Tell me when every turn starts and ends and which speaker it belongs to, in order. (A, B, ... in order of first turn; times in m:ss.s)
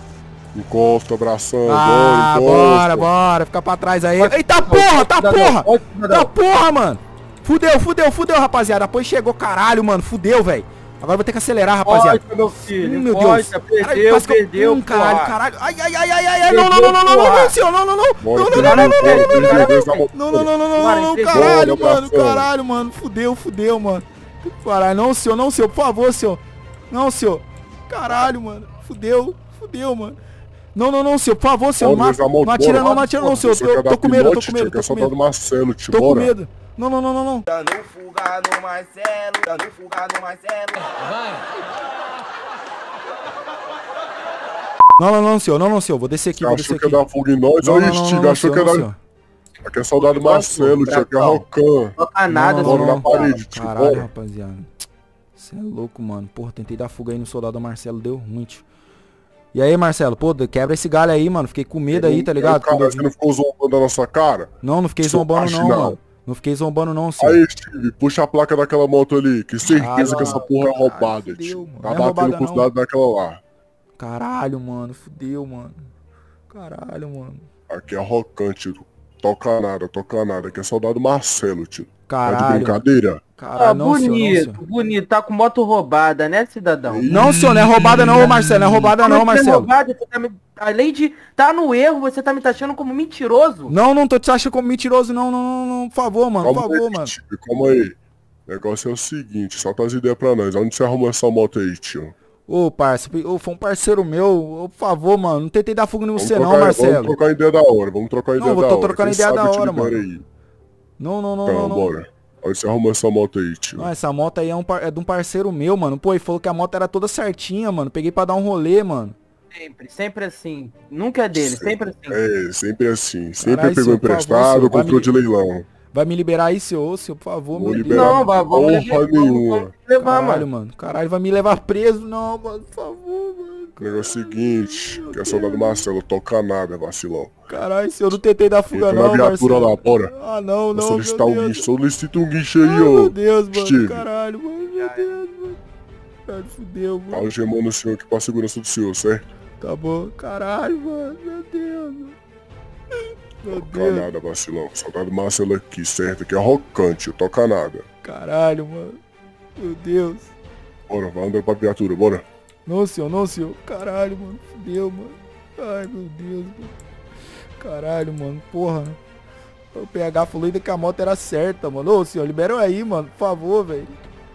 0:00.5-0:03.1 A
0:01.6-0:19.6 B
0:04.2-0:06.3 C
0:11.8-0:15.3 C
0:16.4-0:17.5 C
0:18.2-0:20.5 A
0:18.4-0:20.1 C
0:20.1-0:30.2 B
0:20.7-0:21.7 C
0:21.3-0:22.5 A
0:30.7-0:35.1 B
0:31.8-0:36.3 A
0:35.9-0:37.5 B
0:37.5-0:41.0 D
0:45.0-0:47.0 B
0:46.4-0:48.9 A
0:47.6-0:49.0 B
0:49.6-0:52.0 A
0:50.0-0:51.4 C
0:52.0-0:53.4 C
0:52.3-0:54.7 B
0:52.6-0:54.1 A
0:55.4-0:58.6 B
0:59.5-1:03.0 B
1:01.9-1:04.5 A
1:04.6-1:07.4 B
1:05.0-1:06.0 A
1:07.2-1:13.4 A
1:09.7-1:12.7 B
1:10.0-1:10.4 C
1:14.0-1:15.8 B
1:16.5-1:17.4 B
1:17.7-1:23.2 A
1:22.1-1:22.8 B
1:23.4-1:24.6 B
1:23.5-1:27.1 C
1:26.9-1:28.3 A
1:27.1-1:29.7 B
1:27.8-1:33.7 C
1:33.7-1:37.1 B
1:36.4-1:38.0 A
1:38.5-1:42.1 A
1:42.5-1:47.1 B
1:46.2-1:50.2 A
1:48.4-1:50.0 B
1:51.0-1:51.9 B
1:51.4-1:53.9 A
1:53.8-1:59.2 B
1:59.5-2:02.2 C
2:01.3-2:05.6 A
2:03.4-2:05.2 B
2:05.9-2:08.2 B
2:07.5-2:09.7 A
2:07.8-2:10.4 C
2:10.0-2:15.8 B
2:13.8-2:17.3 A
2:17.5-2:21.6 B
2:18.7-2:20.1 A
2:20.7-2:24.0 A
2:22.6-2:25.6 B
2:26.2-2:27.3 B
2:27.1-2:29.2 A
2:29.6-2:32.2 B
2:33.4-2:34.1 B
2:33.5-2:37.8 A
2:38.0-2:39.0 B
2:39.6-2:40.3 B
2:40.9-2:42.2 A
2:42.6-2:46.7 B
2:47.6-2:49.0 B
2:49.7-2:53.9 B